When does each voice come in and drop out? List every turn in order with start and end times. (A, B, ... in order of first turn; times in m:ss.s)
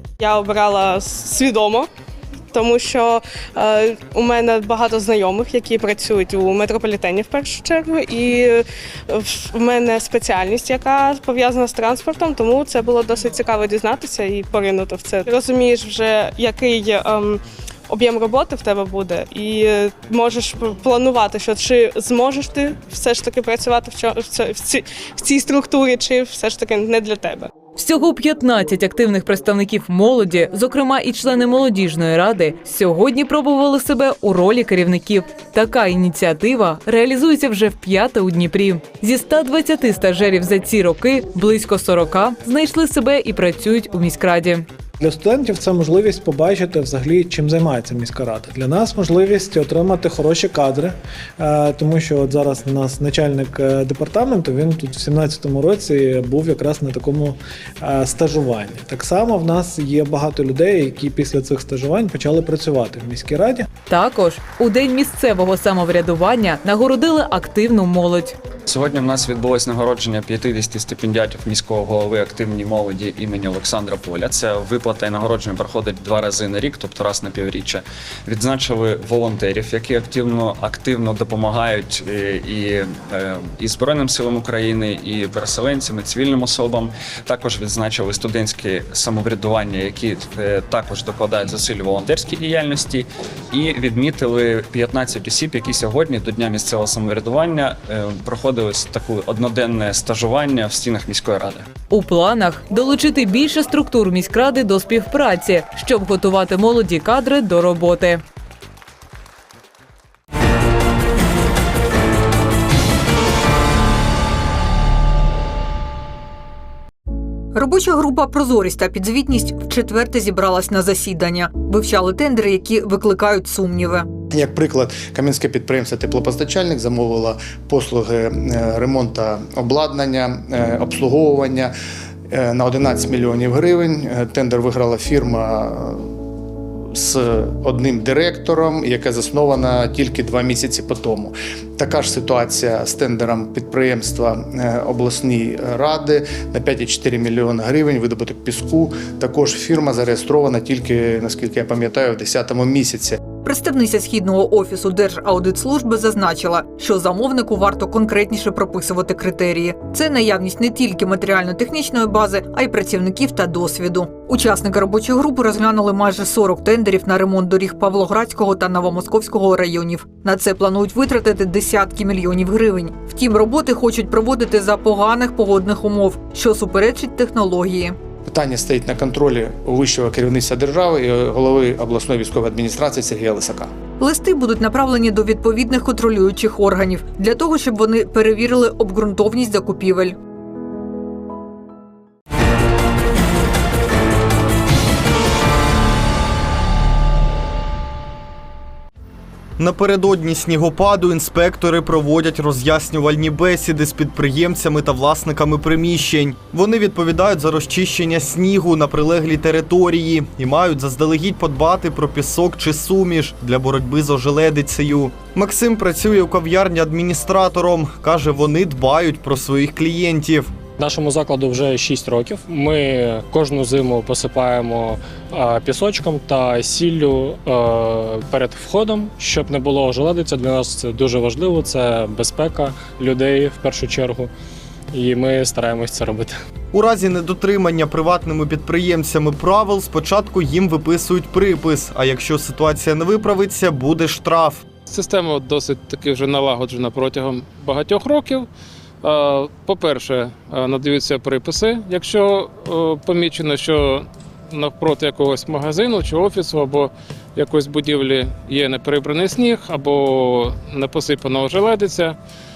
0:00.2-0:01.8 A
0:02.5-0:27.5 A
0:27.8-0:44.6 B
0:45.0-1:03.6 C
1:03.9-1:08.3 B
1:08.7-1:41.7 D
1:41.9-1:48.2 B
1:57.5-2:04.1 E
2:04.3-2:11.7 F
2:12.3-2:16.2 F
2:16.9-2:33.2 F
2:33.4-2:57.9 E
2:58.3-3:03.7 F
3:04.0-3:10.1 E
3:19.6-3:40.5 G
3:40.8-3:54.3 H
3:54.9-3:56.3 H
3:56.7-4:04.6 G
4:04.9-4:08.5 I
4:09.0-4:22.2 I